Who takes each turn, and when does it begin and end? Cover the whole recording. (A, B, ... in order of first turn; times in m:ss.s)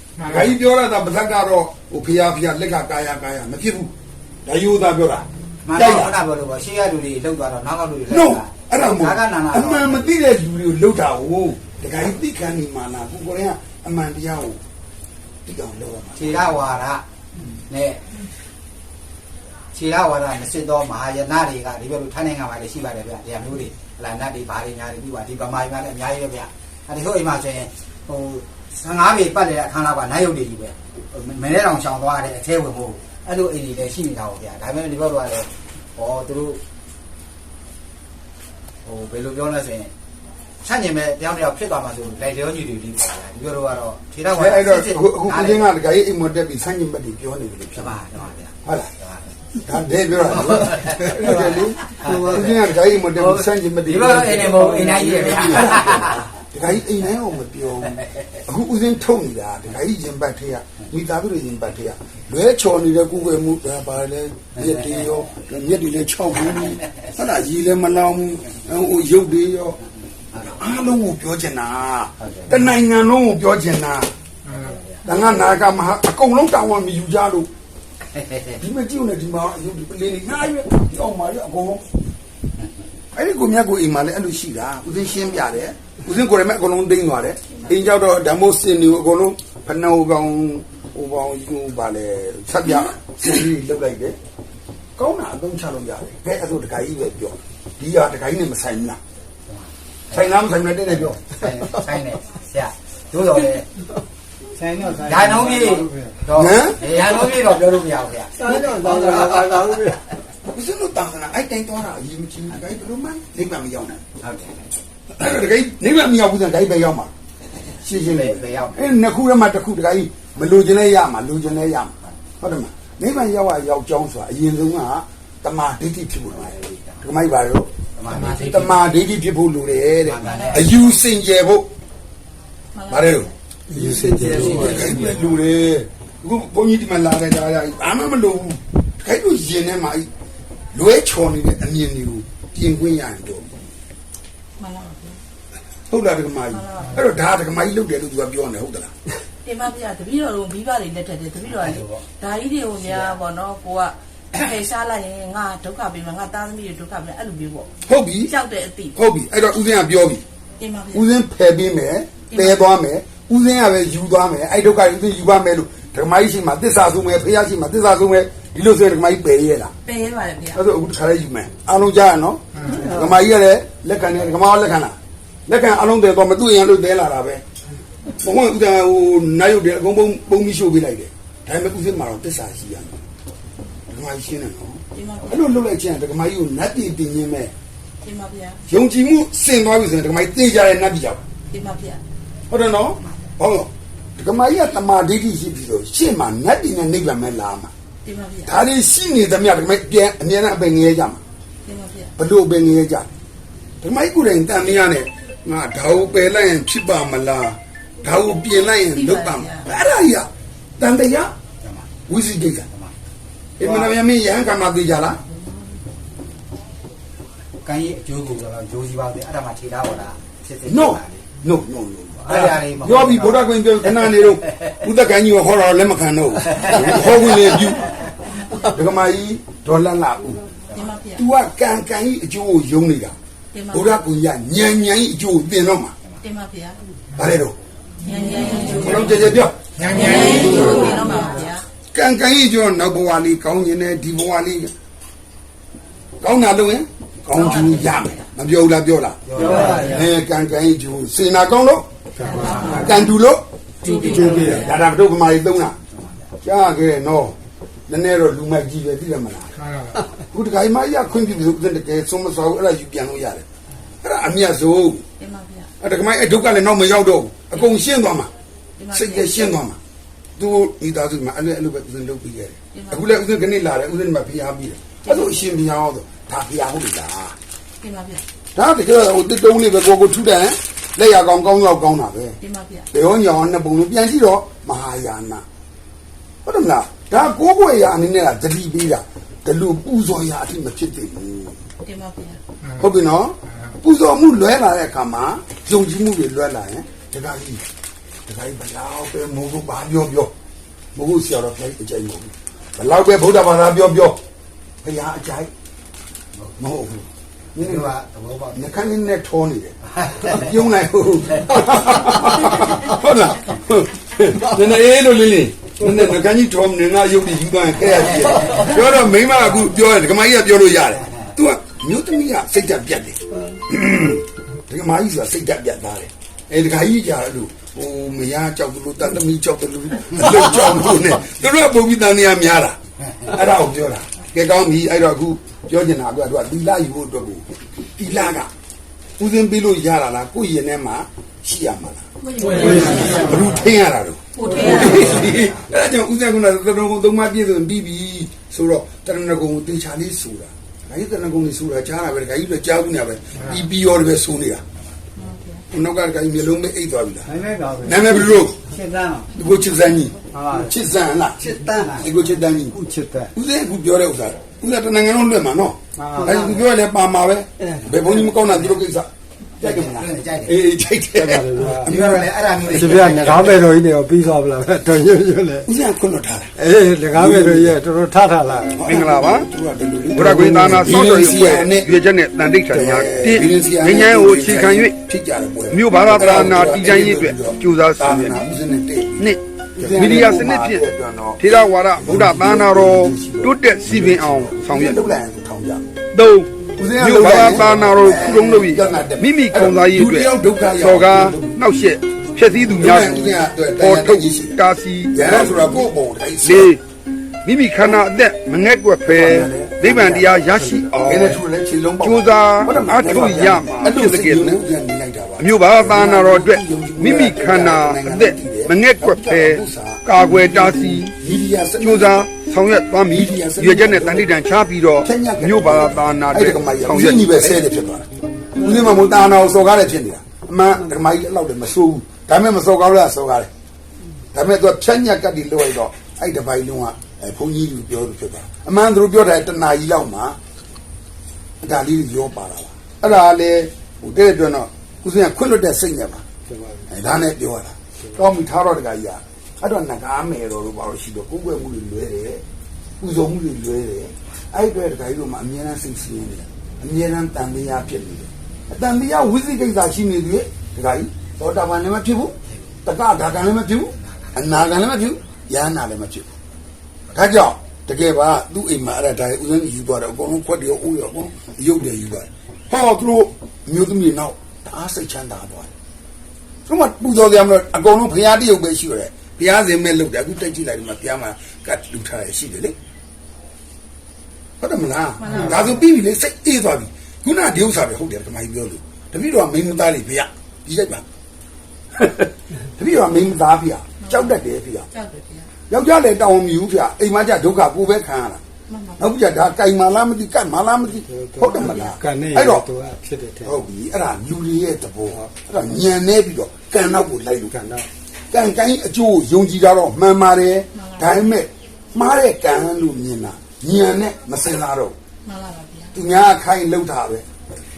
0:00.2-0:03.9 A
0:04.5-0:06.2 A
0:05.7-0:10.1 B
0:08.1-0:14.6 A
0:15.5-0:16.7 A
0:16.2-0:17.0 B
0:17.7-0:18.0 B
0:19.7-0:36.6 B
0:38.8-0:39.9 B
0:40.6-0:45.7 B
0:44.3-0:48.0 A
0:47.8-0:49.4 B
0:48.6-0:48.9 A
0:49.6-0:54.6 A
0:50.2-0:56.3 B
0:52.0-0:52.4 C
0:54.5-0:55.4 C
0:55.4-1:09.8 A
1:10.4-1:14.1 A
1:12.2-1:12.7 B
1:14.5-1:14.8 B
1:15.0-1:17.5 A
1:18.2-1:18.5 B
1:18.6-1:21.8 A
1:23.1-1:34.2 A
1:35.0-1:39.0 A
1:39.5-1:43.7 B
1:40.1-1:41.2 A
1:44.6-1:46.1 C
1:44.7-1:49.6 B
1:46.4-1:46.9 A
1:48.4-1:50.0 C
1:50.5-1:54.0 A
1:54.2-1:54.7 B
1:55.1-1:57.1 A
1:57.8-2:11.7 A
1:57.9-1:58.8 B
2:06.3-2:07.0 B
2:08.0-2:08.7 B
2:10.0-2:10.9 B
2:10.3-2:10.5 D
2:12.7-2:13.3 D
2:12.9-2:13.3 A
2:13.7-2:15.0 C
2:14.2-2:20.1 A
2:14.3-2:14.6 B
2:20.7-2:23.6 A
2:24.6-2:25.2 D
2:25.9-2:28.9 A
2:26.5-2:27.0 D
2:29.4-2:37.7 D
2:31.5-2:32.0 B
2:32.8-2:33.2 B
2:37.9-2:38.3 A
2:38.3-2:39.0 D
2:39.0-2:40.2 A
2:40.6-2:41.0 D
2:40.9-2:49.7 A
2:42.3-2:42.6 D
2:49.8-2:50.6 D
2:50.5-2:55.0 A
2:55.5-2:57.4 A
2:58.2-3:03.0 A
3:03.9-3:07.5 A
3:04.9-3:05.4 D
3:08.0-3:08.6 D
3:08.7-3:11.2 A
3:11.5-3:12.0 D
3:12.5-3:17.7 A
3:13.0-3:13.3 B
3:18.0-3:18.5 D
3:18.4-3:21.2 A
3:21.6-3:22.1 D
3:22.2-3:23.1 A
3:23.8-3:31.3 A
3:28.9-3:29.7 D
3:31.6-3:32.0 B
3:32.1-3:32.7 A
3:33.6-3:35.2 A
3:33.6-3:33.9 B
3:37.6-3:41.2 B
3:40.7-3:50.6 A
3:42.2-3:44.3 B
3:46.6-3:47.7 B
3:48.2-3:48.8 D
3:50.7-3:51.0 B
3:50.8-3:51.3 D
3:51.2-3:53.2 A
3:53.5-3:54.0 D
3:53.7-3:56.0 A
3:56.2-3:56.8 D
3:57.2-3:57.6 A
3:58.0-3:59.0 D
3:58.6-4:01.1 A
3:59.8-4:01.7 D
4:01.9-4:04.7 A
4:06.2-4:11.9 A
4:07.4-4:07.8 D
4:09.3-4:10.0 B
4:09.4-4:10.1 C
4:12.2-4:12.7 C
4:12.2-4:13.1 D
4:12.4-4:12.9 B
4:12.5-4:15.8 A
4:13.8-4:14.8 D
4:13.9-4:14.6 C
4:16.0-4:16.3 B
4:16.4-4:17.4 A
4:17.9-4:23.4 A
4:24.0-4:25.0 A
4:25.2-4:25.7 D
4:25.8-4:28.3 A
4:28.8-4:29.4 D
4:28.9-4:29.8 A
4:30.4-4:37.4 A
4:32.7-4:33.0 D
4:35.1-4:35.5 D
4:37.8-4:38.2 D
4:38.6-4:42.4 A
4:42.4-4:42.9 D
4:42.9-4:45.4 A
4:46.4-4:51.6 A
4:51.8-4:52.4 D
4:52.7-4:57.6 A
4:58.3-5:00.3 A
5:01.0-5:04.2 A
5:04.8-5:05.5 A
5:06.6-5:07.9 A
5:07.6-5:08.8 B
5:08.5-5:38.5 A
5:10.0-5:10.3 B
5:18.0-5:18.8 B
5:39.2-5:54.6 A
5:42.5-5:43.3 C
5:44.4-5:45.1 D
5:44.9-5:45.6 B
5:55.2-5:55.6 D
5:55.7-5:57.3 A
5:57.3-5:58.4 C
5:57.8-5:58.6 A
5:58.6-5:59.3 B
5:59.3-6:02.8 A
6:00.3-6:00.7 C
6:01.4-6:01.9 C
6:01.5-6:02.2 B
6:02.7-6:03.3 C
6:03.3-6:09.1 A
6:06.0-6:06.4 C
6:06.2-6:06.6 B
6:08.0-6:08.8 B
6:09.6-6:10.6 B
6:09.6-6:12.3 A
6:11.2-6:11.8 C
6:11.7-6:13.5 B
6:12.7-6:15.7 C
6:15.6-6:16.6 A
6:16.6-6:19.1 C
6:17.1-6:17.7 A
6:18.8-6:21.9 A
6:18.8-6:19.5 E
6:20.1-6:25.0 E
6:20.2-6:21.0 C
6:22.7-6:31.4 A
6:25.7-6:28.4 E
6:29.2-6:30.8 E
6:31.4-6:35.1 E
6:32.0-6:35.9 A
6:36.1-6:45.9 E
6:36.8-6:41.6 A
6:42.8-6:44.6 A
6:45.1-6:46.7 A
6:46.4-6:46.8 E
6:47.4-6:51.4 E
6:49.1-7:02.3 A
6:52.0-6:54.6 E
6:55.4-7:01.1 E
7:01.8-7:07.7 E
7:03.1-7:04.3 A
7:05.0-7:13.5 A
7:14.3-7:20.4 A
7:21.6-7:26.2 A
7:26.9-7:32.4 A
7:33.0-7:46.3 A
7:42.5-7:42.7 B
7:43.9-7:44.8 B
7:47.1-7:47.5 B
7:47.1-7:55.7 A
7:56.7-8:02.8 A
8:04.6-8:11.0 A
8:05.2-8:05.8 D
8:12.8-8:14.9 A
8:14.1-8:14.4 D
8:14.9-8:15.5 D
8:15.7-8:18.4 A
8:18.7-8:19.0 D
8:19.0-8:22.7 A
8:21.1-8:23.6 C
8:23.4-8:27.6 A
8:27.5-8:27.9 C
8:28.3-8:35.0 A
8:30.7-8:31.2 D
8:35.2-8:36.0 D
8:35.9-8:37.3 A